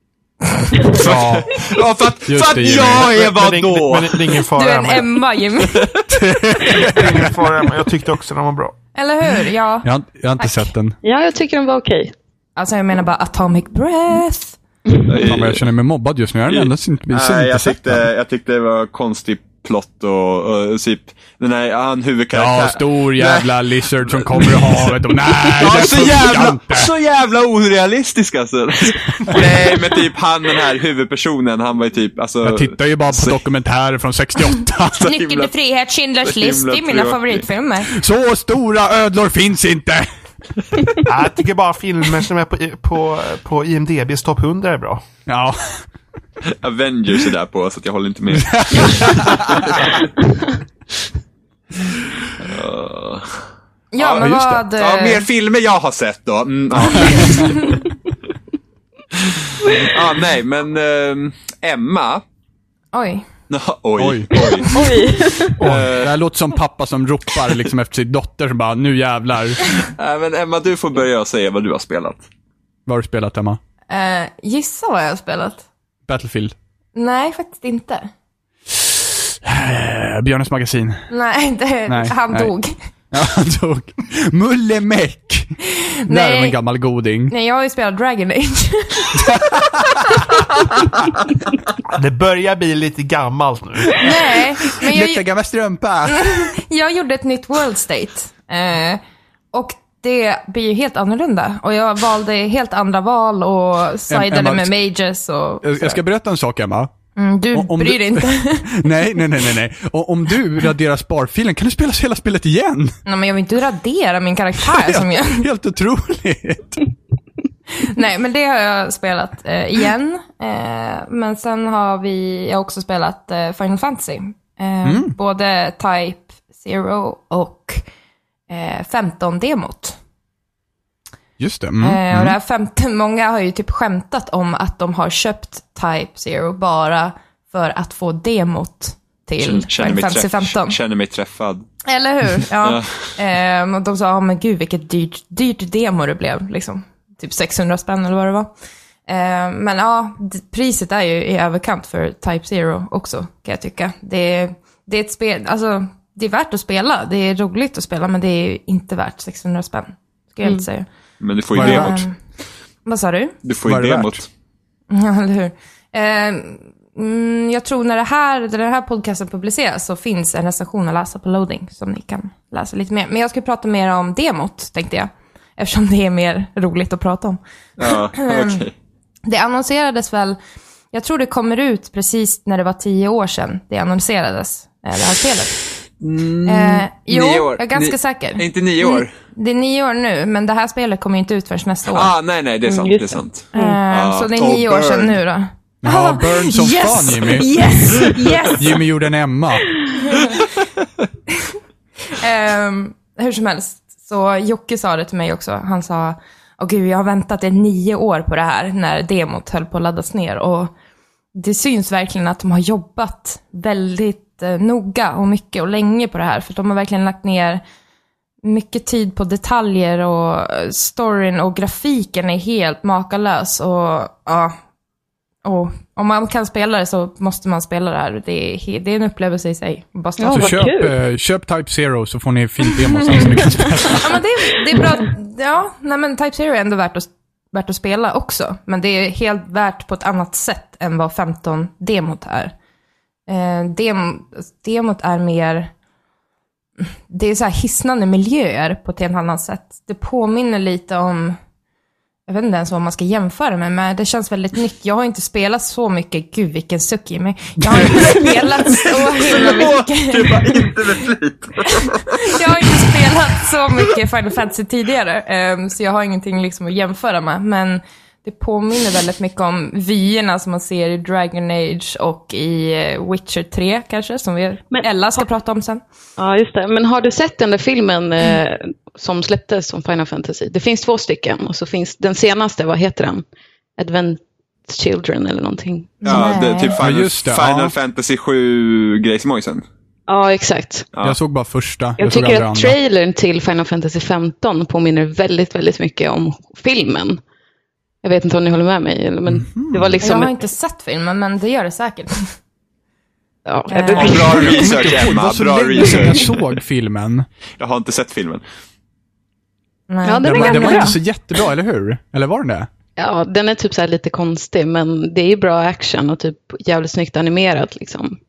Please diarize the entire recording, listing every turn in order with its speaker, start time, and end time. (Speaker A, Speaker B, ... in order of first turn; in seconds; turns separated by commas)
Speaker A: 0.4-0.9, Speaker B: 0.9-4.4, Speaker C: 0.9-1.6, Speaker C: 2.3-3.1, Speaker D: 3.1-5.2, Speaker A: 4.5-6.0, Speaker B: 5.7-6.2, Speaker C: 6.1-7.3, Speaker D: 6.7-8.8, Speaker A: 8.9-10.7, Speaker C: 9.8-11.0, Speaker E: 11.0-12.1, Speaker A: 12.6-14.6, Speaker B: 15.1-15.7, Speaker C: 15.2-18.0, Speaker B: 16.5-33.4, Speaker C: 22.3-26.9, Speaker C: 32.4-35.1, Speaker B: 35.0-35.5, Speaker A: 35.0-37.9, Speaker B: 36.2-37.5, Speaker C: 37.9-40.1, Speaker D: 41.0-45.0, Speaker C: 45.3-45.8, Speaker B: 46.4-50.1, Speaker C: 48.3-50.0, Speaker B: 52.4-53.5, Speaker A: 53.9-55.2, Speaker B: 54.0-57.8, Speaker C: 54.2-54.6, Speaker C: 57.0-57.2, Speaker A: 57.1-57.8, Speaker B: 59.2-62.2, Speaker A: 62.9-63.3, Speaker B: 63.5-64.7, Speaker C: 64.0-64.3, Speaker A: 64.5-65.0, Speaker E: 64.7-65.6, Speaker B: 65.6-66.2, Speaker C: 65.6-69.8, Speaker B: 69.8-72.2, Speaker C: 72.9-73.6, Speaker A: 73.9-75.7, Speaker C: 76.1-76.5, Speaker A: 77.0-78.1, Speaker C: 78.8-81.1, Speaker A: 81.1-82.8, Speaker C: 81.9-82.5, Speaker C: 83.1-87.3, Speaker A: 86.0-86.5, Speaker A: 87.3-89.2, Speaker C: 89.2-90.2, Speaker D: 91.9-94.1, Speaker A: 94.0-95.3, Speaker C: 94.8-96.3, Speaker A: 96.1-99.0, Speaker A: 99.5-106.0, Speaker C: 104.1-104.7, Speaker C: 105.6-106.9, Speaker A: 107.2-108.9, Speaker C: 107.5-113.0, Speaker A: 113.1-115.5, Speaker C: 114.6-116.9, Speaker A: 117.7-127.8, Speaker C: 124.8-125.2, Speaker A: 128.5-130.0, Speaker C: 131.4-132.4, Speaker A: 131.8-140.8, Speaker B: 139.4-141.7, Speaker A: 141.8-148.5, Speaker B: 142.6-143.1, Speaker A: 149.1-160.9, Speaker B: 161.2-162.1, Speaker C: 161.5-162.0, Speaker A: 161.6-162.2, Speaker A: 162.8-163.4, Speaker B: 163.4-164.3, Speaker C: 163.7-164.2, Speaker A: 164.9-178.6, Speaker B: 177.8-178.7, Speaker A: 179.3-180.4, Speaker A: 180.9-185.6, Speaker B: 186.0-189.1, Speaker A: 186.5-192.1, Speaker B: 191.9-195.2, Speaker E: 192.7-193.8, Speaker A: 193.5-198.9, Speaker C: 195.8-197.5, Speaker C: 198.5-199.8, Speaker A: 200.0-200.5, Speaker A: 202.1-210.7, Speaker A: 211.3-217.6, Speaker A: 218.4-224.6, Speaker A: 225.4-230.7, Speaker E: 230.2-231.0, Speaker C: 230.3-234.2, Speaker A: 233.8-242.6, Speaker A: 243.3-245.7, Speaker A: 246.8-251.4, Speaker A: 252.3-260.8, Speaker C: 257.6-258.3, Speaker B: 258.7-262.8, Speaker A: 261.7-275.8, Speaker E: 276.2-283.2, Speaker E: 283.8-286.3, Speaker A: 286.0-286.8, Speaker B: 286.1-289.6, Speaker C: 286.8-287.7, Speaker E: 290.1-290.9, Speaker C: 291.0-292.8, Speaker E: 292.0-297.2, Speaker E: 298.0-300.3, Speaker C: 299.3-300.0, Speaker A: 300.0-302.3, Speaker E: 303.5-304.8, Speaker A: 303.7-304.5, Speaker B: 303.9-306.6, Speaker C: 304.2-307.3, Speaker B: 307.6-308.4, Speaker A: 309.9-311.0, Speaker E: 310.0-311.0, Speaker C: 310.2-312.7, Speaker E: 313.0-318.2